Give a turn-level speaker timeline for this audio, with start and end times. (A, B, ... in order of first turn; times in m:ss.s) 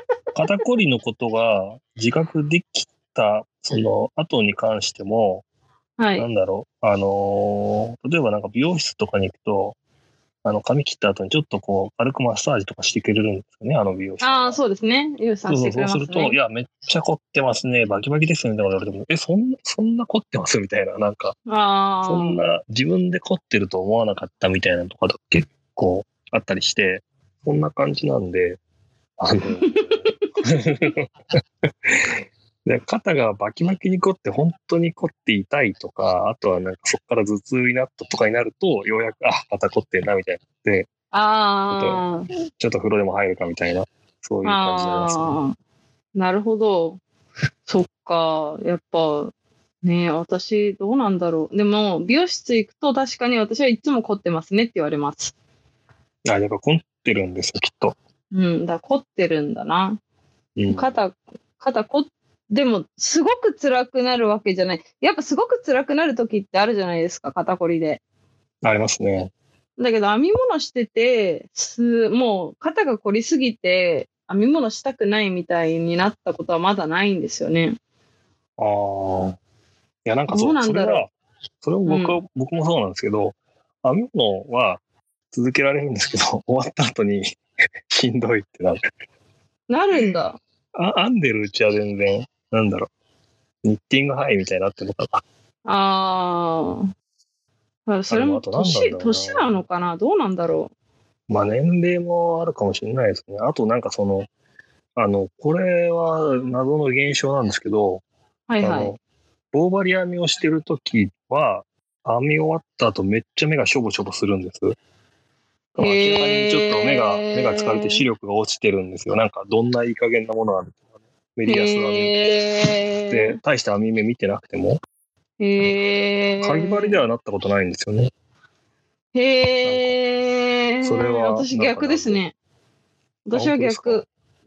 0:00.3-0:05.4 A
0:06.0-0:06.3 B
0:06.2-0:09.8 A
0:10.4-0:14.6 A
0:14.2-0:16.4 B
0:15.5-0:21.4 A
0:21.5-0:22.4 B
0:22.0-0:28.6 A
0:29.2-0:31.1 A
0:29.7-0:30.2 B
0:31.8-0:40.9 A
0:41.1-0:42.3 B
0:41.7-0:42.1 A
0:42.6-0:45.4 A
0:44.4-0:45.6 B
0:46.2-0:47.0 B
0:47.7-0:55.3 B
0:56.2-0:58.0 A
0:58.3-1:00.0 B
1:00.6-1:00.9 A
1:00.7-1:08.0 B
1:08.6-1:09.3 A
1:09.8-1:17.8 B
1:18.6-1:19.4 A
1:20.0-1:21.1 A
1:20.3-1:21.1 B
1:21.6-1:27.4 A
1:21.9-1:22.2 B
1:27.9-1:28.8 A
1:29.7-1:30.4 B
1:30.8-1:32.9 A
1:33.6-1:35.2 A
1:35.7-1:36.9 B
1:37.9-1:40.7 B
1:38.1-1:39.5 A
1:41.3-1:44.3 A
1:45.0-1:48.0 A
1:48.5-1:48.9 B
1:48.6-1:49.0 A
1:49.5-1:54.8 A
1:55.8-2:00.8 A
1:55.8-1:58.0 B
2:01.4-2:02.2 A
2:01.5-2:03.4 B
2:03.1-2:04.8 A
2:05.4-2:07.0 B
2:06.4-2:08.1 A
2:09.1-2:12.3 B
2:09.6-2:09.9 A
2:10.8-2:12.2 A
2:13.3-2:14.1 B
2:13.3-2:14.0 A